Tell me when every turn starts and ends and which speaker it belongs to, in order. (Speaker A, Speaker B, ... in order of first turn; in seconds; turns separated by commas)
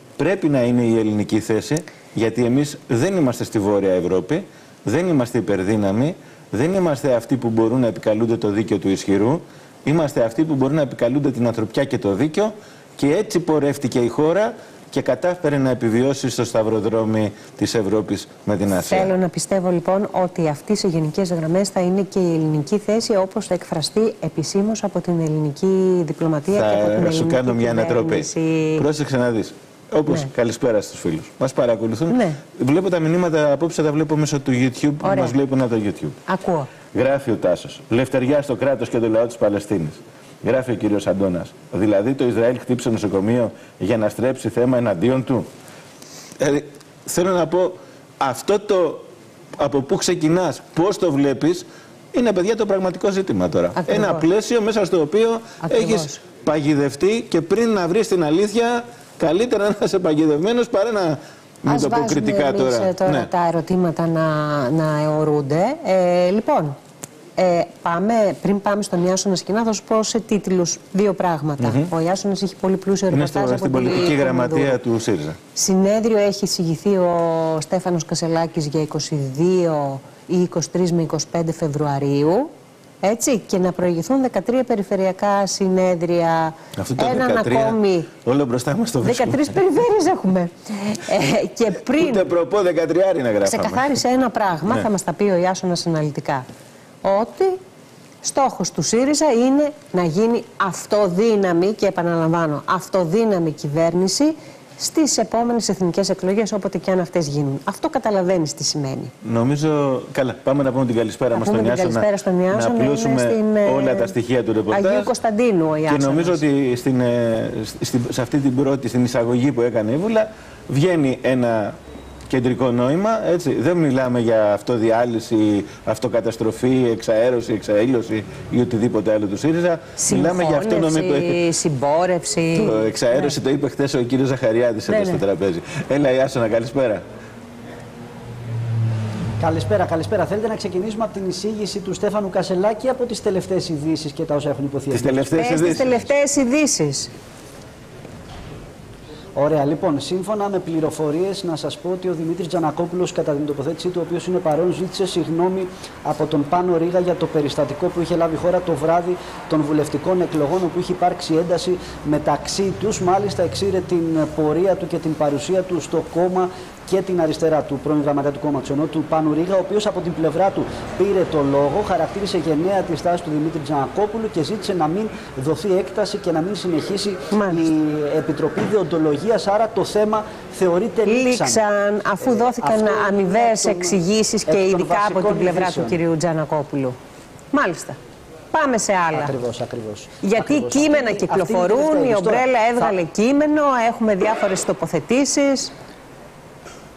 Speaker A: 0.2-19.1, Speaker B: 18.7-28.8, Speaker A: 26.5-36.2, Speaker B: 32.1-32.4, Speaker B: 35.0-35.4, Speaker B: 36.3-36.7, Speaker A: 36.9-45.5, Speaker A: 46.4-63.3, Speaker B: 53.7-54.2, Speaker B: 55.6-56.2, Speaker B: 61.7-66.8, Speaker B: 67.4-74.8, Speaker A: 71.6-71.9, Speaker A: 73.1-75.4, Speaker B: 75.5-82.5, Speaker B: 83.0-88.1, Speaker A: 86.8-89.5, Speaker B: 89.0-92.3, Speaker A: 91.9-93.9, Speaker B: 93.4-96.5, Speaker B: 97.0-97.6, Speaker B: 98.2-109.1, Speaker A: 109.2-115.1, Speaker B: 111.3-114.1, Speaker B: 114.7-116.4, Speaker A: 115.8-131.4, Speaker B: 130.0-133.3, Speaker A: 132.5-137.0, Speaker B: 134.9-135.2, Speaker C: 139.4-145.7, Speaker A: 144.9-145.9, Speaker B: 145.3-147.1, Speaker C: 149.3-181.6, Speaker B: 177.3-177.6, Speaker B: 181.1-187.0, Speaker C: 182.2-186.0, Speaker B: 187.5-188.0, Speaker B: 188.5-189.3, Speaker C: 189.1-192.9, Speaker B: 190.2-195.7